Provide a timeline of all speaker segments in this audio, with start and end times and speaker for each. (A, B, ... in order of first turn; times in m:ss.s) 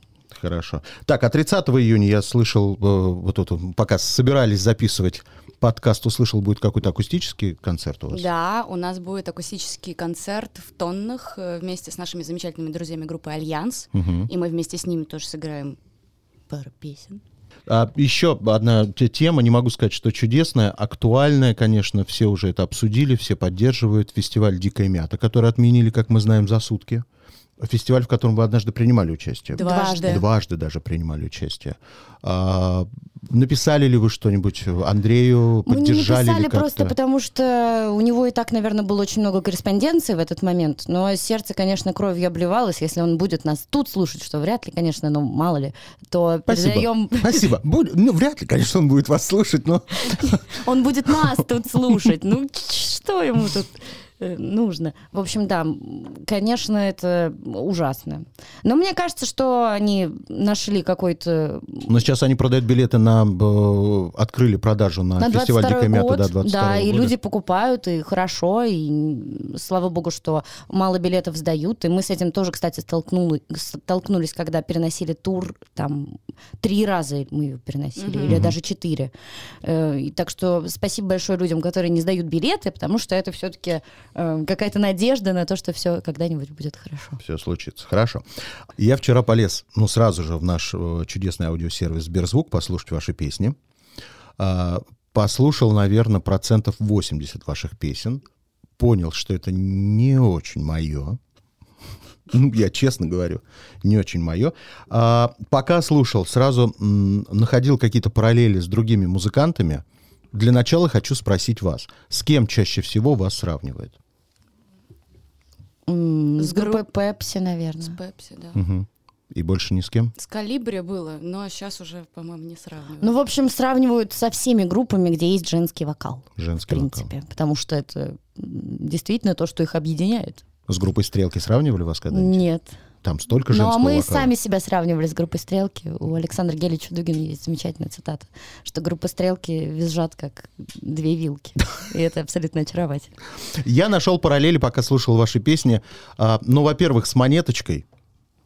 0:00.3-0:08.3 A
0:08.1-0:15.8 B
0:13.9-0:14.3 A
0:16.5-0:17.2 B
0:17.7-0:27.0 A
0:27.6-0:36.9 A
0:29.6-0:30.2 B
0:29.6-0:30.2 C
0:35.7-0:47.5 C
0:46.5-0:50.5 A
0:50.5-1:02.0 C
1:01.9-1:07.1 A
1:05.2-1:27.2 C
1:18.0-1:18.4 B
1:18.3-1:18.5 A
1:27.2-1:28.2 A
1:28.8-1:33.6 A
1:34.4-1:38.2 A
1:38.8-1:41.2 A
1:42.3-1:54.0 A
1:55.9-1:58.0 C
1:56.4-1:56.9 B
1:57.8-1:58.6 B
1:58.5-2:00.1 A
2:00.2-2:03.1 B
2:03.0-2:10.4 C
2:06.4-2:07.1 A
2:10.7-2:12.4 A
2:12.1-2:12.8 C
2:13.0-2:14.3 A
2:13.5-2:23.1 C
2:23.5-2:27.8 A